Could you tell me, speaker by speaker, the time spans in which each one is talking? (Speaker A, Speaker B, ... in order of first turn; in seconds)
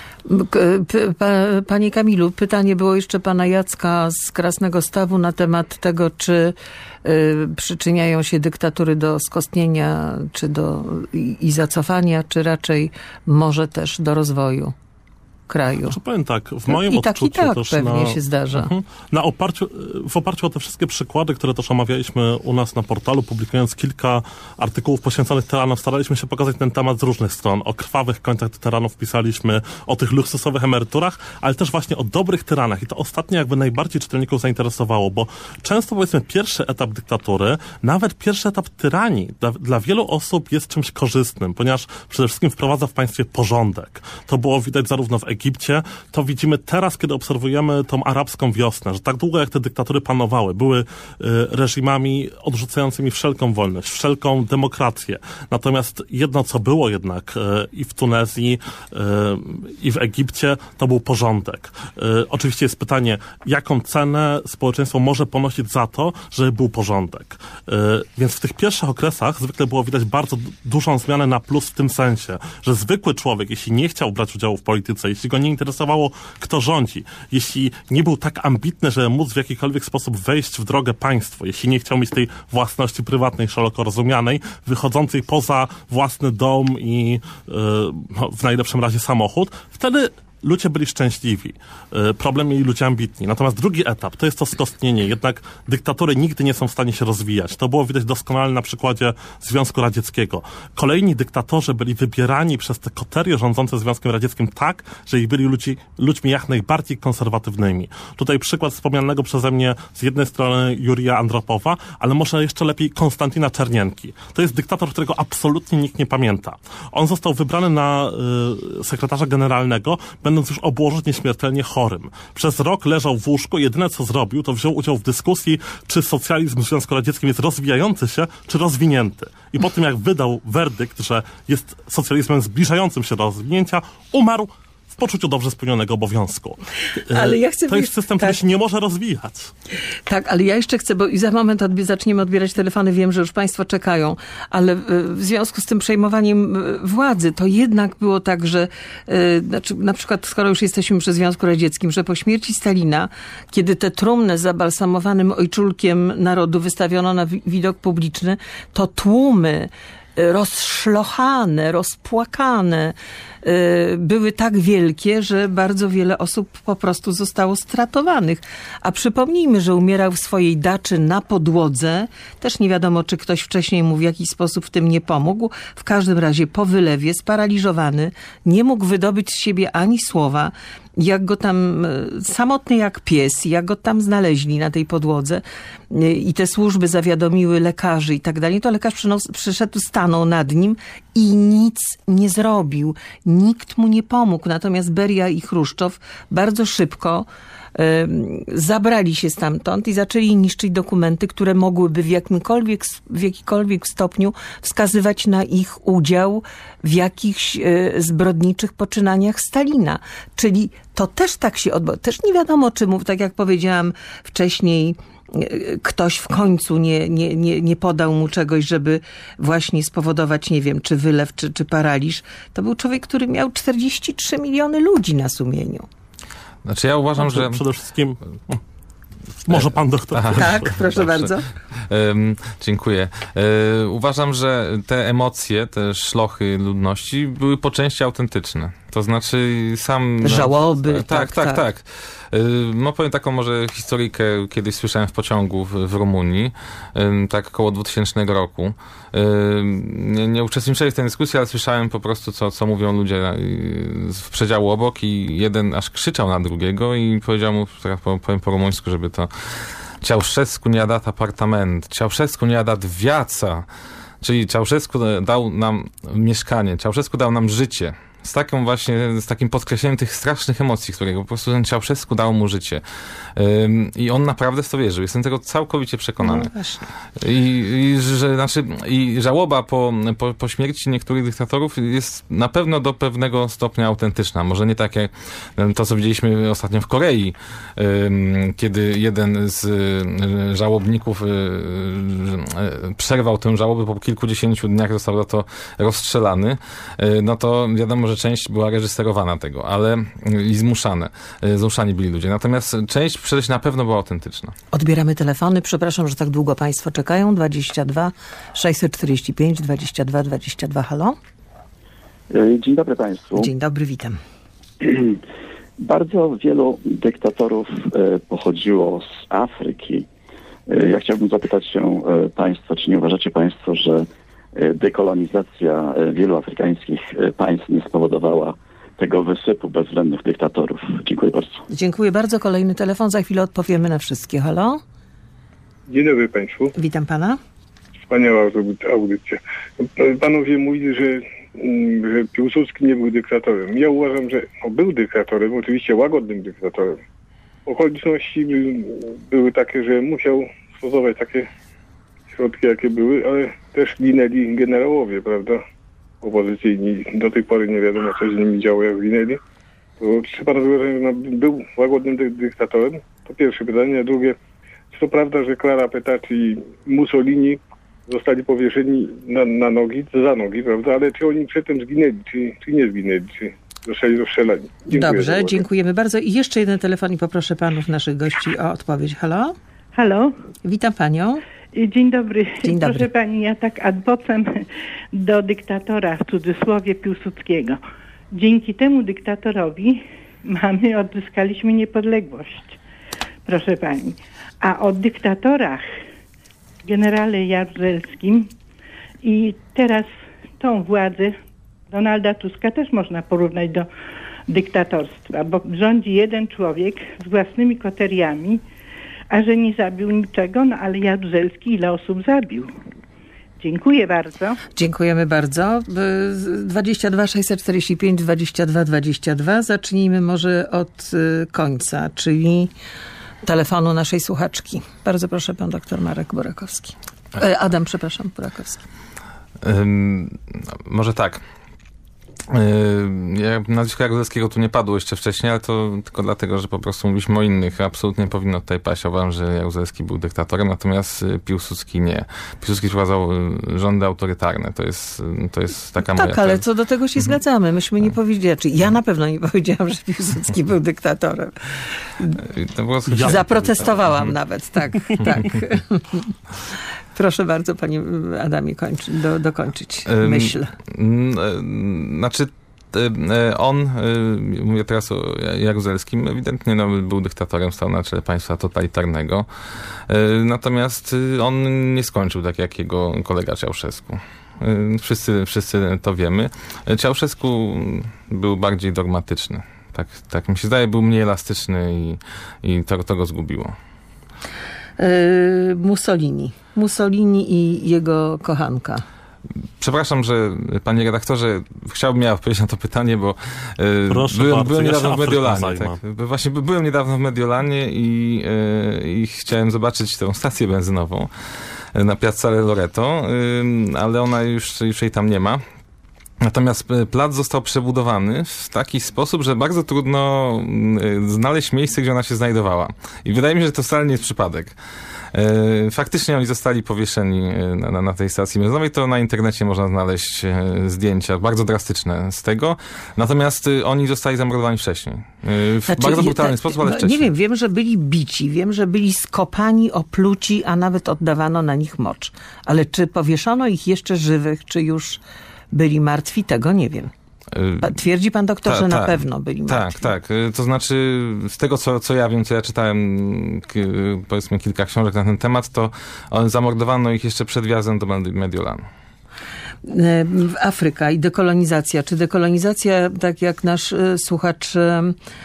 Speaker A: 0.3-14.8, 15.5-16.0, 16.7-18.7, 137.1-138.4, 140.1-225.9, 230.4-231.5, 240.2-241.6, 276.2-276.9, 304.7-311.2, 313.4-314.2, 331.7-334.8, 336.8-337.4, 374.9-379.6, 380.6-381.4, 382.6-383.1, 414.8-422.7, 423.4-428.8, 446.0-451.6, 453.2-456.3, 457.1-460.7, 485.0-489.0, 525.9-535.2, 535.7-537.1, 537.8-540.1, 549.9-555.2
Speaker B: 15.9-139.5, 227.2-228.6, 229.4-230.7, 453.1-453.4, 494.1-496.0
Speaker C: 226.7-227.6, 229.5-259.3, 260.0-263.7, 264.2-272.8, 273.4-276.5, 277.2-304.5, 429.6-431.4, 432.5-446.6, 452.4-454.0, 460.1-469.5, 470.1-483.8, 489.8-501.3, 501.9-505.6, 506.4-514.8, 515.3-527.3, 537.5-537.9, 538.7-548.8
Speaker D: 312.3-313.5, 314.8-315.1, 315.8-320.1, 320.7-331.6
Speaker E: 335.9-336.7, 338.1-347.0, 347.7-351.5, 352.3-355.6, 356.2-359.4, 360.0-364.4, 364.9-375.6
Speaker F: 379.9-380.4, 381.7-387.8, 388.3-392.8, 393.4-395.9, 396.9-398.5, 399.2-401.4, 401.9-403.9, 404.5-408.6, 409.3-412.7, 413.6-414.6